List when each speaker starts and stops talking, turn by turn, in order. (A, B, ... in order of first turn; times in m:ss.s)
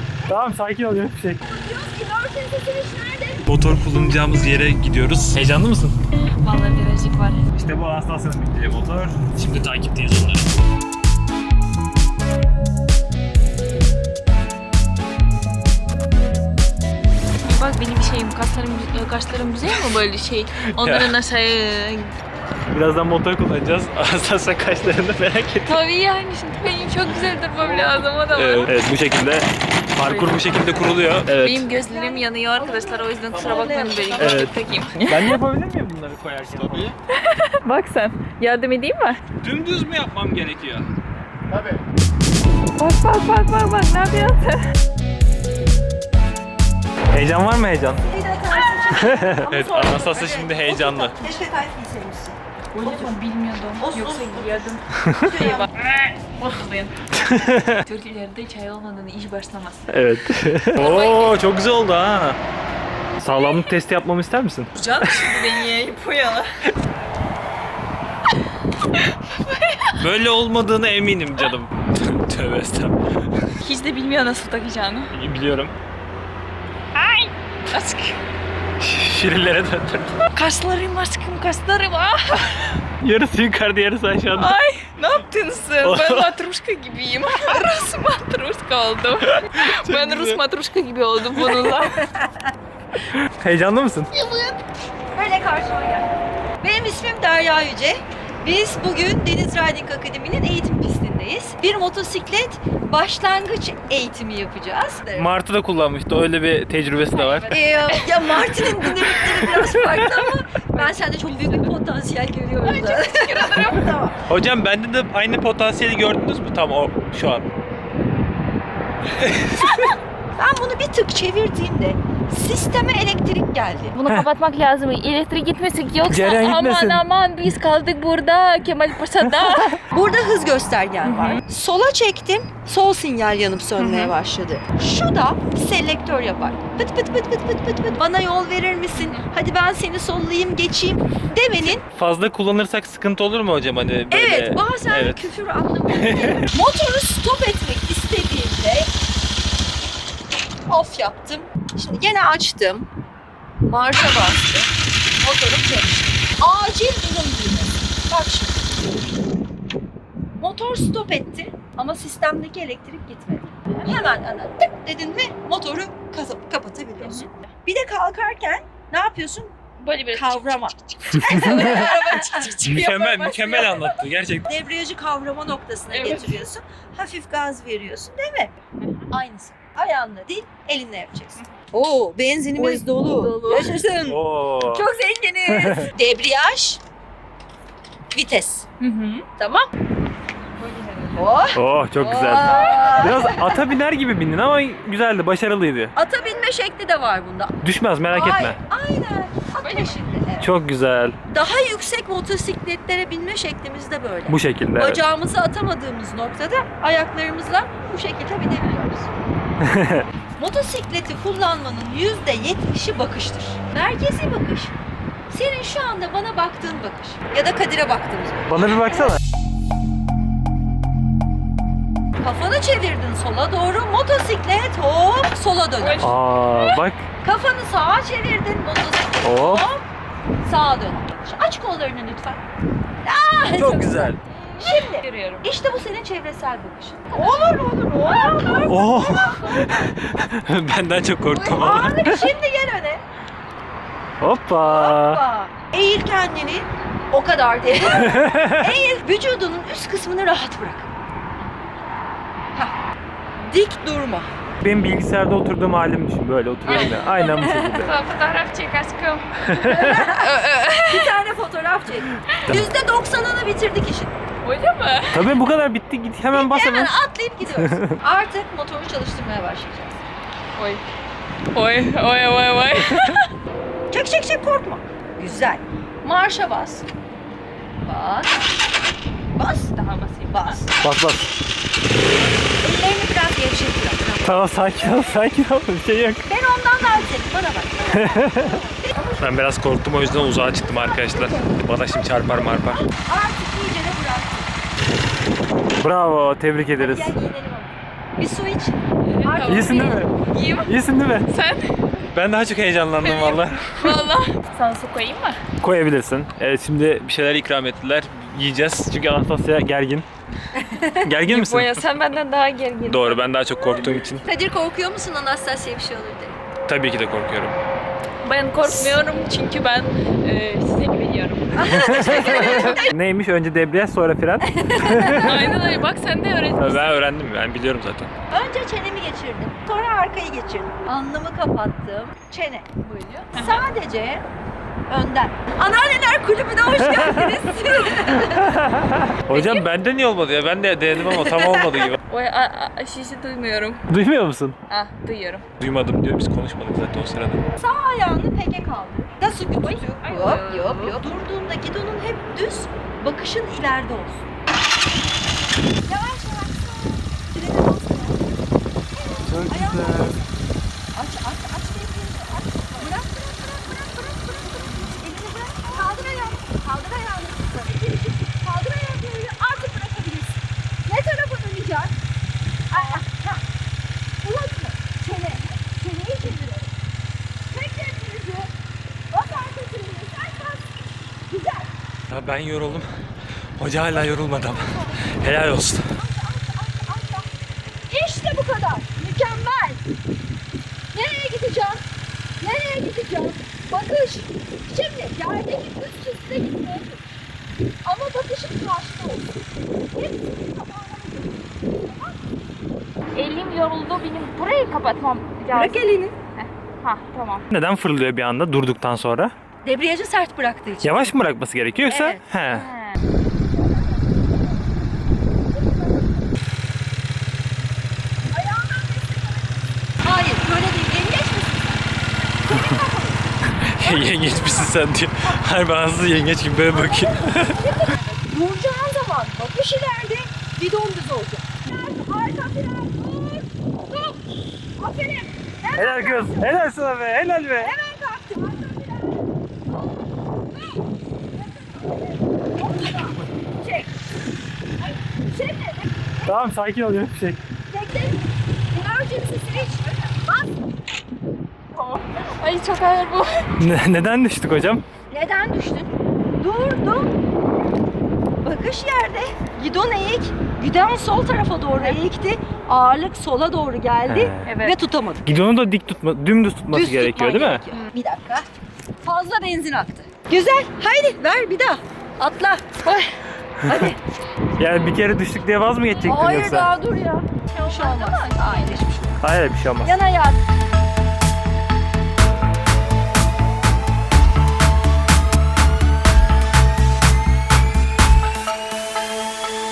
0:00.3-0:01.4 A
0:01.5-0:03.5 B
0:03.5-0:06.0 A
0:06.4-0:07.4 C
0:07.5-0:10.5 A
0:17.4-0:22.1 C
0:20.8-0:21.1 A
0:22.7-0:25.8 A
0:25.7-0:28.7 C
0:28.3-0:31.7 A
0:30.0-0:30.5 C
0:31.3-0:35.4 C
0:31.7-0:34.5 B
0:34.2-0:34.6 A
0:35.1-0:37.0 A
0:37.1-0:39.2 C
0:39.4-0:40.9 A
0:42.8-0:44.6 C
0:47.1-0:48.0 A
0:48.0-0:53.2 B
0:48.9-0:51.2 A
0:52.7-0:57.0 C
0:53.8-0:55.7 B
0:55.0-0:55.4 A
0:57.1-0:57.8 A
0:57.8-0:59.9 C
0:59.9-1:02.4 A
1:00.8-1:01.4 C
1:03.2-1:05.5 A
1:03.2-1:03.7 C
1:04.7-1:06.6 C
1:09.0-1:09.9 C
1:10.0-1:13.5 A
1:13.6-1:15.1 C
1:15.1-1:15.7 A
1:16.9-1:18.2 C
1:18.8-1:20.2 A
1:20.3-1:22.8 C
1:23.0-1:24.6 A
1:24.3-1:32.1 C
1:25.8-1:26.3 A
1:29.2-1:30.4 A
1:31.6-1:32.5 B
1:33.0-1:34.1 A
1:34.1-1:34.6 B
1:35.1-1:45.3 B
1:45.1-1:47.5 A
1:47.1-1:49.4 C
1:47.5-1:54.2 B
1:49.5-1:50.1 A
1:50.7-1:51.8 C
1:52.6-1:54.0 C
1:54.3-1:57.5 A
1:59.1-1:59.9 A
1:59.6-2:04.0 B
2:03.9-2:09.8 C
2:06.1-2:07.0 A
2:09.2-2:09.8 A
2:09.8-2:21.8 B
2:11.0-2:11.4 C
2:13.8-2:14.1 C
2:19.0-2:19.3 C
2:21.9-2:25.3 A
2:24.1-2:28.9 B
2:25.9-2:26.5 A
2:30.7-2:32.9 B
2:33.7-2:38.8 B
2:40.4-2:49.5 B
2:47.0-2:47.5 C
2:49.8-2:54.0 C
2:50.1-2:52.5 B
2:51.3-2:51.8 A
2:52.6-2:54.5 A
2:54.5-2:58.5 B
2:55.9-2:56.4 C
2:58.8-2:59.1 C
2:59.1-3:06.8 B
3:02.6-3:03.7 C
3:04.1-3:04.9 A
3:05.5-3:05.9 A
3:08.1-3:08.6 B
3:08.8-3:09.3 C
3:09.4-3:09.7 B
3:10.6-3:11.3 C
3:11.2-3:13.6 B
3:11.6-3:15.9 A
3:12.3-3:13.4 C
3:16.0-3:17.6 B
3:17.6-3:18.6 A
3:18.1-3:20.5 B
3:19.6-3:20.1 C
3:20.4-3:21.2 A
3:21.3-3:29.1 B
3:24.3-3:25.0 A
3:29.6-3:30.1 A
3:30.4-3:34.8 B
3:35.3-3:38.7 B
3:38.5-3:39.2 A
3:42.2-3:46.0 B
3:45.8-3:46.8 C
3:46.0-3:47.1 A
3:47.2-3:49.8 B
3:49.2-3:49.6 A
3:50.4-3:52.4 B
3:53.0-3:59.9 B
3:53.5-3:54.2 A
3:54.3-3:55.5 C
3:57.1-3:58.8 C
3:58.7-4:02.3 A
4:01.3-4:03.0 B
4:04.2-4:05.2 A
4:04.6-4:10.9 B
4:07.9-4:08.8 A
4:13.4-4:14.3 B
4:14.6-4:18.0 A
4:16.7-4:17.7 B
4:16.7-4:21.2 C
4:19.4-4:20.1 A
4:19.6-4:20.3 B
4:20.9-4:24.1 B
4:22.4-4:22.7 A
4:24.4-4:25.3 C
4:25.1-4:28.0 A
4:26.3-4:30.0 B
4:30.6-4:30.8 C
4:31.5-4:33.3 C
4:33.9-4:36.9 B
4:37.8-4:38.4 B
4:39.4-4:39.7 B
4:39.7-4:40.6 C
4:40.3-4:40.7 B
4:40.8-4:41.3 A
4:42.6-4:45.2 B
4:44.2-4:46.2 A
4:46.3-4:49.2 B
4:47.9-4:48.6 A
4:49.2-4:52.9 A
4:50.7-4:52.0 B
4:52.9-4:54.5 B
4:55.8-4:57.1 A
4:56.8-5:00.0 B
4:59.1-5:00.7 C
4:59.4-5:01.3 A
5:01.3-5:02.0 C
5:02.1-5:04.1 A
5:03.0-5:05.4 C
5:05.6-5:10.1 A
5:10.6-5:11.0 B
5:11.0-5:11.8 A
5:11.3-5:13.9 C
5:12.9-5:14.2 A
5:14.1-5:16.4 B
5:16.7-5:17.6 A
5:18.2-5:21.5 C
5:18.6-5:19.0 B
5:21.5-5:22.9 B
5:21.6-5:25.6 A
5:22.1-5:22.8 C
5:24.4-5:25.6 B
5:25.2-5:27.0 C
5:26.6-5:28.1 A
5:28.3-5:32.7 B
5:32.8-5:33.6 C
5:33.3-5:34.2 B
5:34.9-5:38.6 B
5:36.8-5:37.4 A
5:38.4-5:42.0 A
5:39.3-5:39.7 C
5:41.3-5:41.9 B
5:42.1-5:43.8 C
5:43.9-5:44.6 A
5:44.7-5:45.4 C
5:45.6-5:47.4 A
5:47.6-5:54.3 B
5:49.6-5:51.0 C
5:55.8-5:58.4 B
5:58.9-6:00.3 B
5:59.0-5:59.3 C
5:59.3-6:00.2 A
6:00.9-6:12.0 B
6:12.7-6:13.4 B
6:14.2-6:16.7 B
6:17.5-6:18.5 B
6:19.1-6:21.7 B
6:22.1-6:22.9 A
6:23.6-6:25.9 A
6:23.9-6:25.0 B
6:25.9-6:27.3 B
6:27.9-6:29.8 B
6:30.9-6:31.8 B
6:32.4-6:37.0 B
6:37.8-6:39.3 B
6:39.9-6:42.2 B
6:43.2-6:45.8 C
6:45.5-6:46.2 B
6:46.4-6:47.5 C
6:47.5-6:49.3 A
6:49.6-6:51.1 B
6:50.8-6:52.7 A
6:51.8-6:52.2 B
6:52.5-6:53.0 C
6:58.3-6:59.5 B
7:00.0-7:03.2 B
7:03.6-7:07.7 A
7:03.8-7:04.7 B
7:06.7-7:14.2 B
7:14.8-7:16.6 B
7:15.8-7:17.8 A
7:17.6-7:23.9 B
7:24.8-7:26.3 B
7:26.2-7:27.4 A
7:27.7-7:30.5 B
7:31.7-7:33.4 C
7:33.6-7:34.8 A
7:35.1-7:37.1 B
7:38.4-7:45.2 B
7:41.7-7:42.0 C
7:44.1-7:44.6 A
7:44.4-7:44.8 C
7:45.3-7:47.6 A
7:46.7-7:48.5 B
7:49.0-7:52.7 B
7:53.7-7:54.0 B
7:54.6-7:56.7 A
7:56.0-7:59.2 B
7:57.6-7:58.8 C
7:59.2-7:59.9 A
7:59.8-8:00.4 B